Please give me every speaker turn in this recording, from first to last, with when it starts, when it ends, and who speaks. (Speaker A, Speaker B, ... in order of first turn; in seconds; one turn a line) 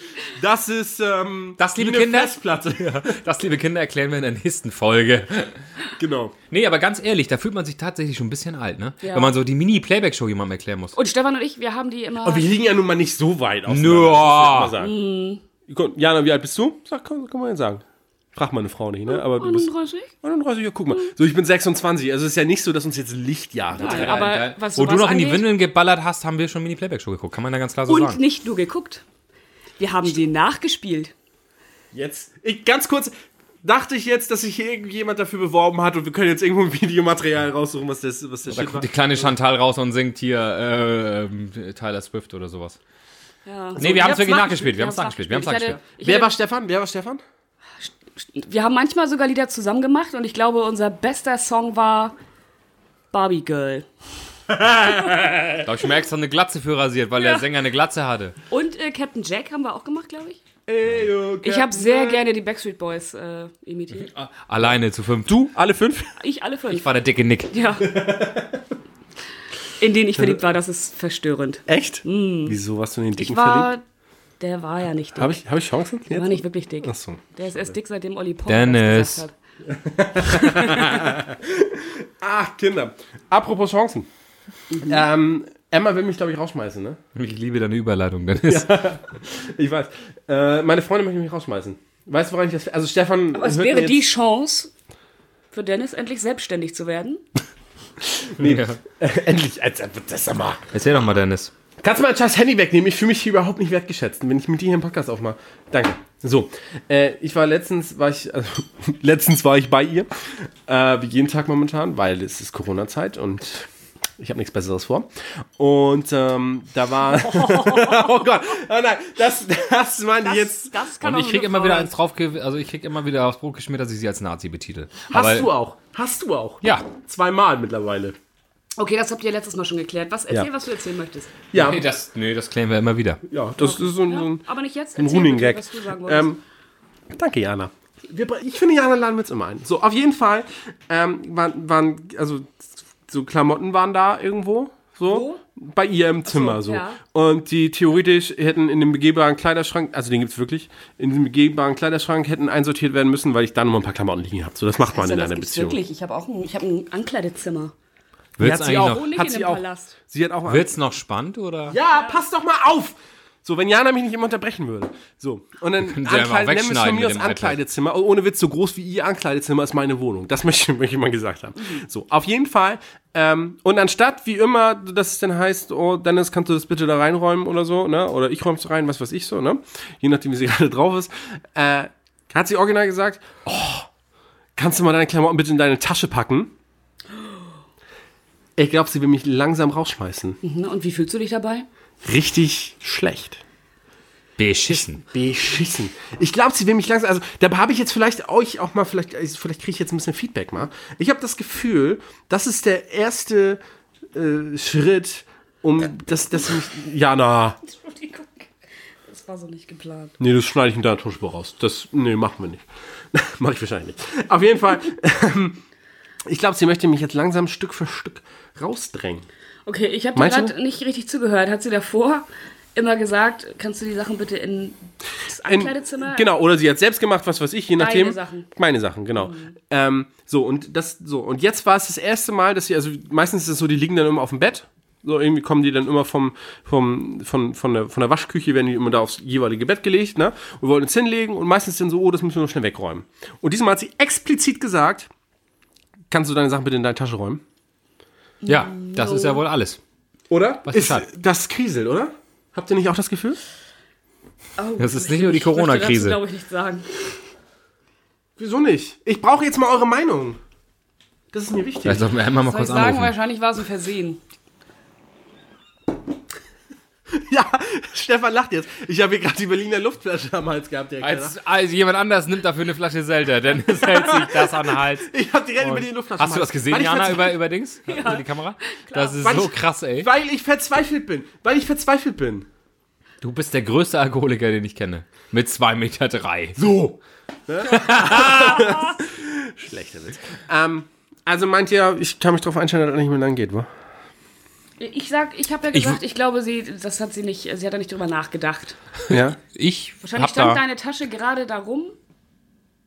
Speaker A: 0.2-3.2
Speaker B: 1.6-5.6
Speaker A: 6.0-6.3
Speaker B: 6.5-10.9
Speaker C: 9.0-9.3
Speaker C: 10.9-12.5
Speaker A: 12.2-14.9
Speaker B: 13.7-14.7
Speaker C: 14.8-15.4
Speaker A: 15.7-17.8
Speaker A: 18.4-19.7
Speaker C: 19.1-20.1
Speaker A: 20.2-24.2
Speaker B: 23.7-28.2
Speaker C: 23.8-25.5
Speaker C: 27.9-29.0
Speaker C: 29.8-31.1
Speaker A: 31.9-39.3
Speaker B: 38.5-42.8
Speaker C: 43.4-46.4
Speaker B: 43.8-45.8
Speaker A: 43.8-44.5
Speaker A: 46.0-47.2
Speaker C: 47.8-52.1
Speaker C: 53.1-53.9
Speaker A: 54.6-55.6
Speaker B: 55.6-58.4
Speaker C: 57.2-57.5
Speaker C: 58.5-60.4
Speaker A: 60.7-62.2
Speaker C: 61.4-64.1
Speaker B: 64.0-65.5
Speaker A: 65.3-66.1
Speaker C: 66.2-66.9
Speaker B: 66.7-67.6
Speaker C: 67.5-68.0
Speaker A: 67.9-68.6
Speaker C: 69.8-72.6
Speaker A: 70.1-70.4
Speaker A: 71.7-73.7
Speaker C: 73.2-73.8
Speaker C: 74.4-75.4
Speaker A: 75.2-77.7
Speaker C: 76.1-79.3
Speaker B: 78.5-79.2
Speaker A: 79.7-84.1
Speaker C: 80.3-81.0
Speaker C: 84.7-85.0
Speaker A: 84.8-87.0
Speaker B: 87.1-88.8
Speaker A: 88.5-94.0
Speaker C: 93.3-94.7
Speaker C: 95.5-97.2
Speaker A: 98.1-100.7
Speaker B: 98.4-98.8
Speaker B: 100.7-101.5
Speaker A: 101.8-113.7
Speaker A: 114.2-120.8
Speaker C: 117.2-118.1
Speaker C: 120.2-121.9
Speaker B: 121.0-125.5
Speaker A: 125.1-128.2
Speaker C: 128.8-131.3
Speaker A: 131.5-131.8
Speaker B: 131.6-133.2
Speaker A: 133.3-134.4
Speaker C: 133.6-136.4
Speaker A: 134.9-136.4
Speaker A: 137.1-155.8
Speaker C: 145.1-145.4
Speaker C: 146.2-147.0
Speaker C: 154.9-157.7
Speaker B: 158.4-159.0
Speaker A: 158.4-160.7
Speaker C: 158.6-159.9
Speaker B: 160.5-161.8
Speaker A: 161.7-183.9
Speaker C: 161.9-162.2
Speaker B: 165.8-167.6
Speaker A: 184.6-186.5
Speaker A: 188.6-190.4
Speaker C: 190.4-191.7
Speaker A: 192.0-193.4
Speaker B: 194.4-195.0
Speaker A: 194.7-203.6
Speaker A: 204.1-207.6
Speaker C: 207.6-208.5
Speaker C: 209.1-210.2
Speaker A: 210.2-215.6
Speaker A: 216.3-219.3
Speaker C: 219.7-226.3
Speaker A: 220.2-220.5
Speaker A: 225.4-245.1
Speaker C: 227.8-228.5
Speaker C: 229.2-229.6
Speaker A: 246.1-247.4
Speaker C: 248.4-249.4
Speaker B: 248.4-249.8
Speaker A: 250.3-253.4
Speaker B: 250.6-251.1
Speaker C: 254.6-257.1
Speaker B: 254.8-256.2
Speaker A: 258.4-260.4
Speaker A: 261.3-262.1
Speaker B: 261.9-263.1
Speaker C: 262.5-264.2
Speaker A: 267.1-271.3
Speaker B: 271.0-280.1
Speaker A: 273.9-277.4
Speaker C: 277.9-279.4
Speaker A: 279.2-282.5
Speaker B: 283.2-286.6
Speaker A: 286.6-293.7
Speaker B: 287.6-288.7
Speaker C: 294.8-298.8
Speaker B: 295.7-296.0
Speaker B: 299.1-300.6
Speaker A: 299.1-299.4
Speaker C: 300.0-301.9